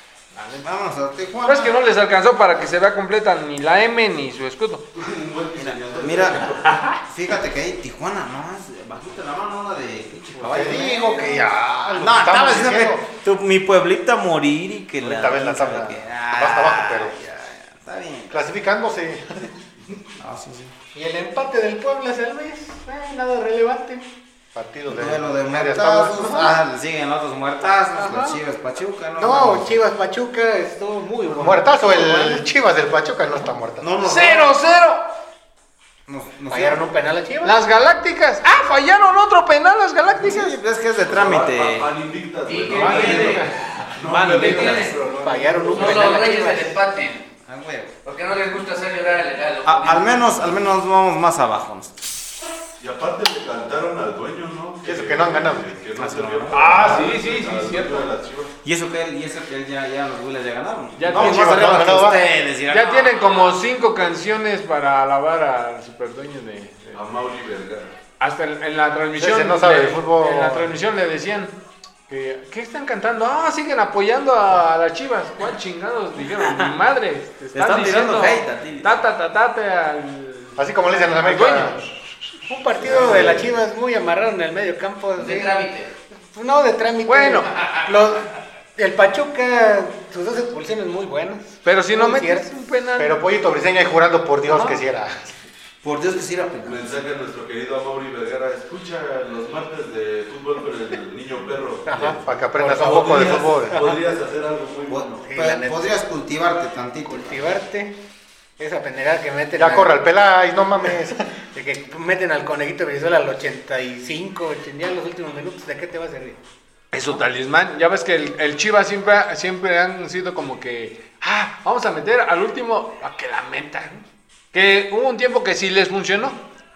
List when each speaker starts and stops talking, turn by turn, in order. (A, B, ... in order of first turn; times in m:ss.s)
0:00.3-0:00.6 A
0:00.6-0:01.7 B
0:01.4-0:04.8 A
0:04.9-0:06.8 C
0:05.6-0:18.4 B
0:06.6-0:07.0 A
0:10.4-0:13.0 D
0:15.0-0:17.1 D
0:18.3-0:19.5 D
0:20.2-0:20.7 B
0:20.9-0:24.0 E
0:24.5-0:26.5 D
0:24.9-0:29.7 B
0:29.2-0:32.4 E
0:31.3-0:34.0 D
0:33.8-0:34.5 B
0:34.0-0:35.0 A
0:36.1-0:36.8 B
0:36.5-0:37.6 E
0:37.4-0:40.5 A
0:40.2-0:41.9 B
0:41.0-0:46.3 C
0:42.4-0:43.4 F
0:42.7-0:43.7 A
0:42.9-0:43.3 B
0:44.1-0:45.0 B
0:44.3-0:44.9 F
0:45.0-0:46.8 E
0:45.7-0:47.2 F
0:47.5-0:47.9 B
0:48.0-0:50.4 F
0:49.6-0:52.0 B
0:52.8-0:58.5 C
0:54.8-0:55.7 D
0:56.0-0:56.9 B
0:56.5-0:58.1 A
0:58.6-1:03.5 B
1:01.0-1:02.1 A
1:01.1-1:02.3 D
1:02.7-1:07.1 A
1:06.9-1:08.0 C
1:08.2-1:11.5 A
1:09.2-1:10.7 D
1:12.1-1:21.9 A
1:16.3-1:16.7 B
1:17.5-1:19.0 B
1:20.6-1:21.8 D
1:22.4-1:25.6 E
1:22.9-1:23.4 B
1:22.9-1:23.3 D
1:25.2-1:25.9 F
1:26.3-1:32.5 E
1:27.0-1:27.9 A
1:31.6-1:33.2 A
1:33.0-1:35.3 D
1:34.5-1:34.8 E
1:35.8-1:36.8 B
1:36.6-1:45.2 C
1:41.8-1:44.0 E
1:42.0-1:43.9 D
1:44.9-1:47.6 B
1:45.2-1:46.0 E
1:47.0-1:48.0 E
1:48.6-1:50.0 E
1:49.6-1:51.2 D
1:51.5-1:56.4 E
1:56.9-2:06.4 A